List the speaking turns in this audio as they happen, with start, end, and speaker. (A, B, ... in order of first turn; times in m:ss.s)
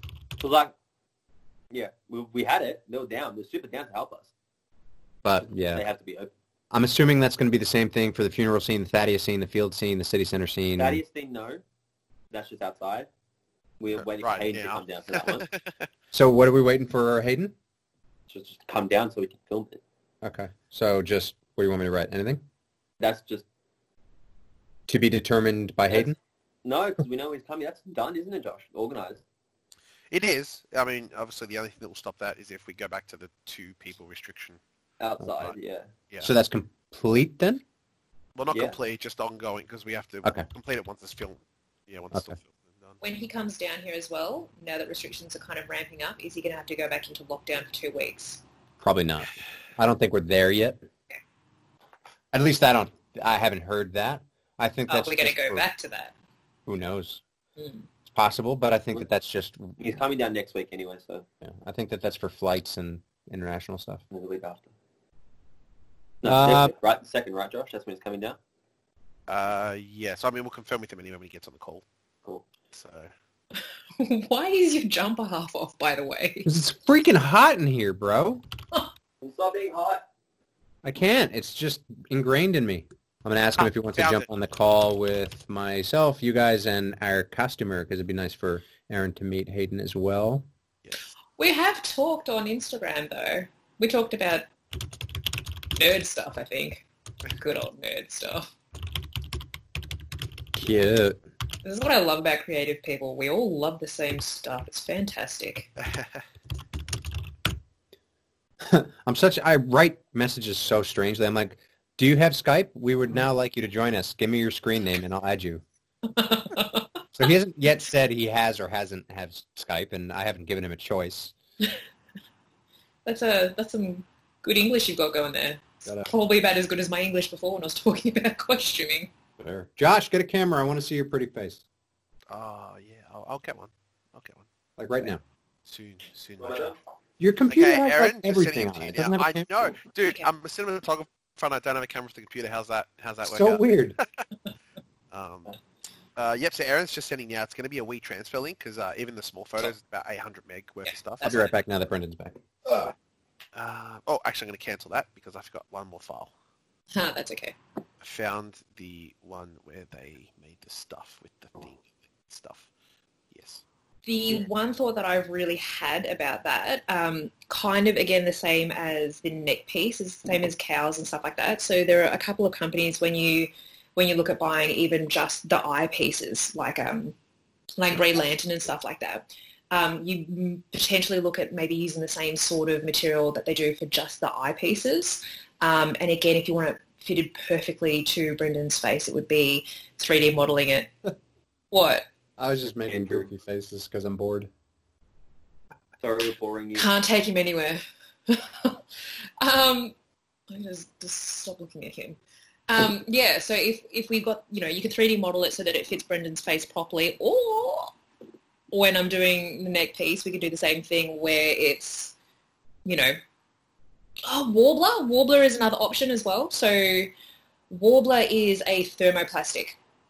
0:00.4-0:00.7 A
0:01.7-0:04.3 A
0:05.2-0:05.8 B
0:05.6-0:06.3 A
0:06.7-0:11.0 B
0:10.8-0:11.6 A
0:12.3-0:13.1 A
0:13.8-0:15.4 A
0:14.0-0:15.9 C
0:16.1-0:17.5 B
0:18.3-0:19.8 A
0:20.2-0:22.4 B
0:23.0-0:23.4 A
0:24.9-0:26.2 B
0:26.6-0:29.2 A
0:30.1-0:34.6 C
0:35.0-0:35.9 A
0:36.2-0:37.6 B
0:38.4-0:43.0 C
0:38.5-0:38.8 A
0:43.0-0:48.4 D
0:48.8-0:50.8 B
0:52.3-0:55.6 B
0:54.9-0:56.1 D
0:56.6-0:57.2 B
0:57.6-0:57.8 D
0:58.1-0:59.8 B
0:59.8-1:01.3 A
1:01.4-1:04.0 B
1:04.1-1:04.7 A
1:06.2-1:08.4 A
1:06.2-1:06.7 B
1:09.3-1:11.8 C
1:12.7-1:13.1 C
1:14.0-1:16.5 D
1:16.4-1:18.4 B
1:19.2-1:20.0 A
1:20.8-1:30.5 B
1:24.0-1:24.3 C
1:31.4-1:34.5 D
1:35.8-1:38.5 D
1:40.6-1:41.2 B
1:41.6-1:45.7 D
1:45.8-1:46.1 C
1:48.6-1:55.6 B
1:56.1-1:56.9 D
1:57.2-2:01.3 B
2:03.0-2:09.1 D
2:09.4-2:11.6 B
2:12.3-2:14.5 C
2:14.8-2:15.2 B
2:15.6-2:16.7 C
2:16.4-2:16.8 A
2:17.2-2:19.7 B
2:17.5-2:24.0 C
2:20.0-2:20.3 D
2:23.2-2:24.0 B
2:25.1-2:25.6 C
2:26.2-2:31.4 C
2:30.9-2:31.5 D
2:31.2-2:32.9 B
2:33.5-2:36.3 C
2:37.0-2:37.6 D
2:38.0-2:42.7 C
2:43.3-2:43.6 C
2:44.1-2:57.1 D
2:57.8-3:10.9 D
3:11.7-3:12.1 D
3:12.4-3:14.5 B
3:12.9-3:13.3 A
3:16.0-3:16.9 A
3:16.8-3:19.9 D
3:20.5-3:27.9 D
3:28.7-3:32.1 D
3:32.8-3:33.2 D
3:34.2-3:37.1 D
3:37.7-3:39.8 D